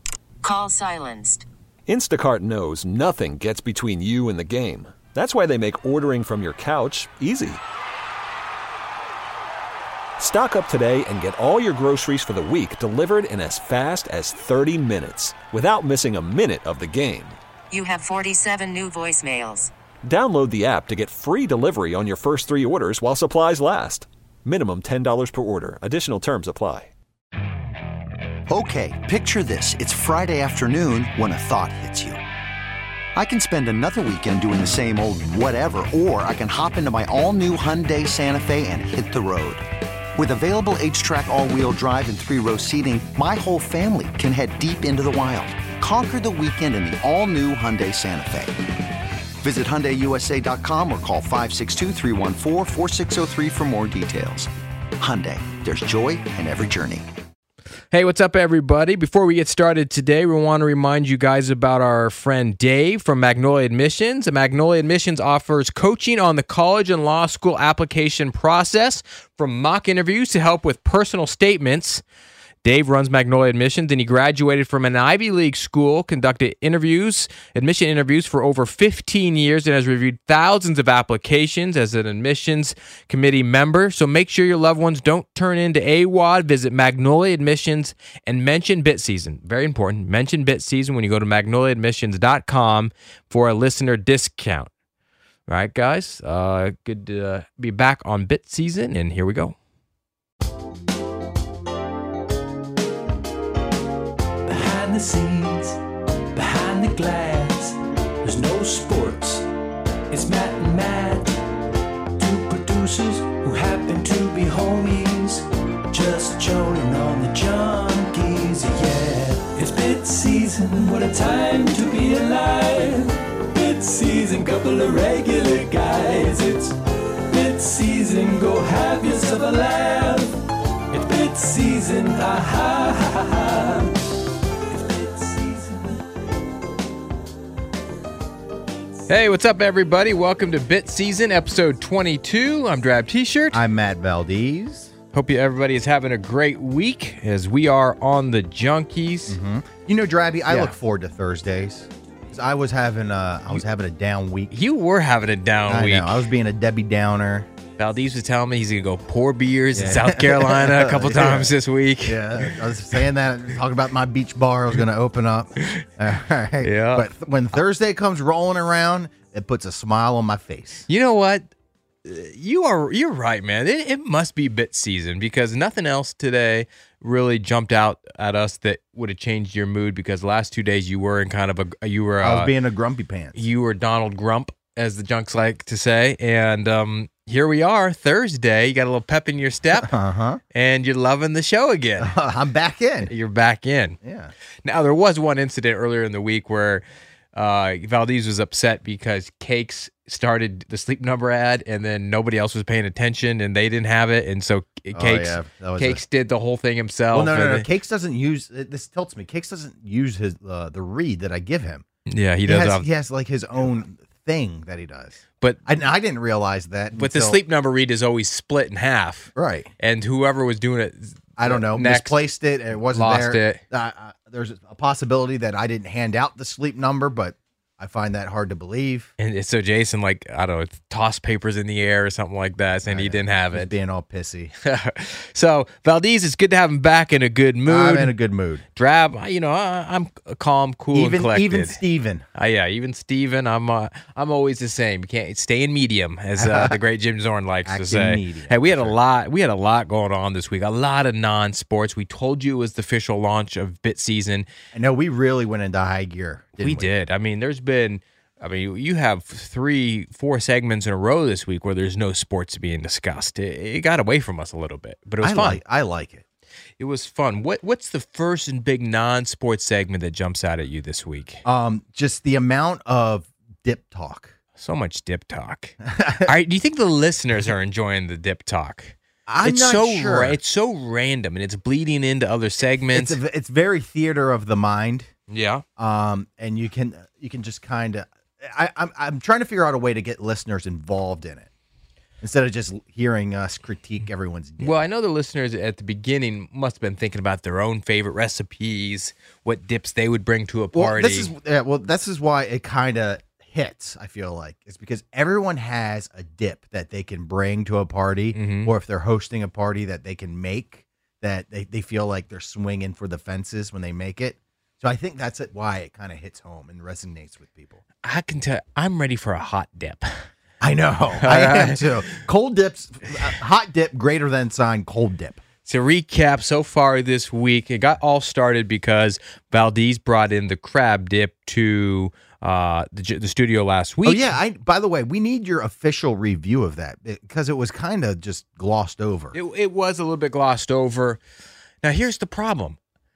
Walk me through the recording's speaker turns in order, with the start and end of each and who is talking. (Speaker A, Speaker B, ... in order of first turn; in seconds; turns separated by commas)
Speaker A: 0.4-1.5, Speaker B: 1.9-7.6, Speaker B: 10.2-17.4, Speaker A: 17.7-19.7, Speaker B: 20.0-26.9, Speaker C: 28.5-32.2, Speaker C: 33.1-39.6, Speaker C: 40.1-48.6, Speaker C: 49.4-57.1, Speaker D: 57.9-72.0, Speaker D: 72.6-94.7, Speaker D: 95.5-99.5, Speaker E: 104.5-105.8, Speaker E: 106.3-109.4, Speaker E: 110.1-111.4, Speaker E: 112.2-133.9, Speaker E: 134.7-136.0, Speaker D: 139.1-143.6, Speaker F: 143.5-144.9, Speaker D: 145.1-149.4, Speaker F: 149.3-154.5, Speaker D: 150.5-150.7, Speaker D: 154.5-156.2, Speaker F: 155.7-157.5, Speaker D: 157.8-162.6, Speaker F: 159.7-161.5, Speaker F: 162.0-170.9, Speaker D: 166.6-167.1, Speaker D: 170.9-171.5, Speaker D: 172.0-182.5, Speaker F: 182.2-183.4, Speaker D: 183.3-189.9, Speaker F: 189.7-190.4, Speaker D: 190.5-192.2, Speaker F: 192.0-193.1, Speaker D: 193.0-194.0, Speaker F: 194.0-194.3, Speaker D: 194.6-207.7, Speaker F: 204.9-206.0, Speaker F: 207.1-211.8, Speaker D: 212.1-212.9, Speaker F: 212.4-217.4, Speaker D: 216.9-222.2, Speaker F: 219.3-219.7, Speaker F: 221.4-229.1, Speaker D: 222.9-223.6, Speaker D: 229.2-233.7, Speaker F: 232.9-234.5, Speaker D: 234.6-238.1, Speaker F: 237.7-238.6, Speaker D: 238.7-241.8, Speaker F: 240.9-242.2, Speaker D: 242.3-254.5, Speaker F: 246.4-246.8, Speaker F: 247.6-249.0, Speaker F: 254.7-256.9, Speaker D: 256.6-265.6, Speaker F: 265.2-266.2, Speaker D: 266.8-271.4, Speaker F: 271.4-274.3, Speaker D: 274.6-283.2, Speaker F: 275.8-276.3, Speaker F: 279.3-280.4, Speaker F: 282.9-285.1, Speaker D: 285.3-285.6, Speaker F: 285.8-291.5, Speaker F: 292.2-294.8, Speaker D: 294.6-301.3, Speaker F: 300.7-317.8, Speaker D: 308.3-308.7, Speaker D: 318.0-320.1, Speaker F: 320.6-325.4, Speaker D: 321.2-322.2, Speaker D: 325.6-334.3, Speaker F: 334.0-339.3, Speaker D: 339.3-341.2, Speaker D: 341.8-342.8